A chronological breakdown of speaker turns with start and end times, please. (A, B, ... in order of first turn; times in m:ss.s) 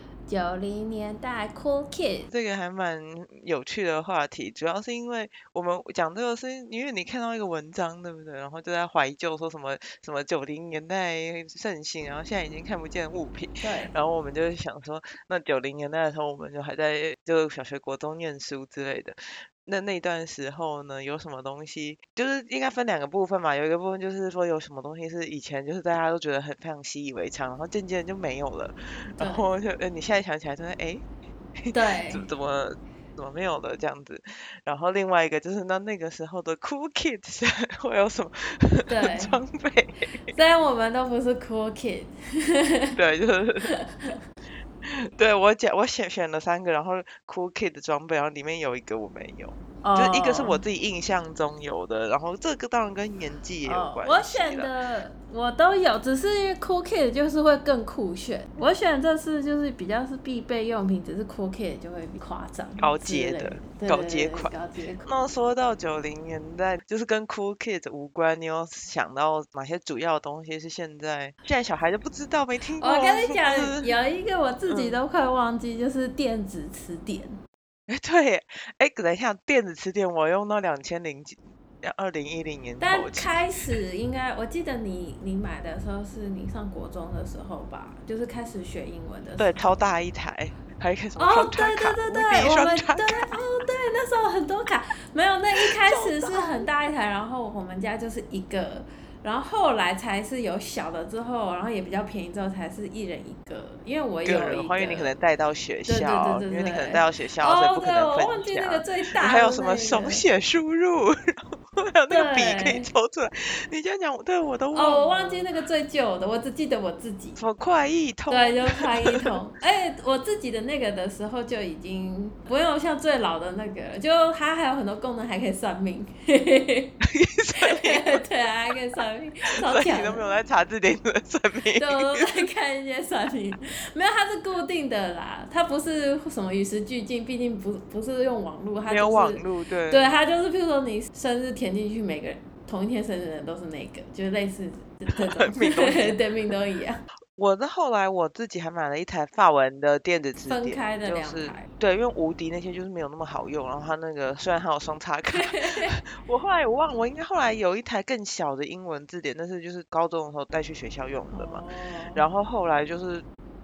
0:00.2-0:02.3 A
0:02.3-0:31.0 B
0:13.6-0:13.9 A
0:29.2-0:29.4 A
0:31.6-0:40.3 B
0:31.7-0:32.2 A
0:38.9-0:39.4 A
0:40.3-0:43.0 A
0:43.0-0:43.7 B
0:43.6-0:44.2 A
0:44.8-0:54.7 B
0:49.8-0:50.6 A
0:53.6-1:05.1 A
1:02.8-1:04.5 B
1:05.0-1:13.9 B
1:12.8-1:17.4 A
1:14.7-1:15.0 B
1:17.9-1:23.4 B
1:22.8-1:29.5 A
1:29.4-1:33.4 B
1:31.2-1:45.2 A
1:35.5-1:36.7 B
1:44.2-1:55.4 B
1:45.9-1:50.2 A
1:52.1-1:52.9 A
1:54.7-1:57.4 A
1:57.4-1:59.3 B
1:58.3-2:06.9 A
2:07.0-2:08.2 B
2:07.5-2:10.2 A
2:09.6-2:12.4 B
2:11.8-2:27.0 A
2:18.8-2:20.2 B
2:25.3-2:26.2 B
2:27.4-2:41.6 B
2:30.5-2:31.7 A
2:35.3-2:36.0 A
2:41.3-2:42.2 A
2:42.1-2:43.2 B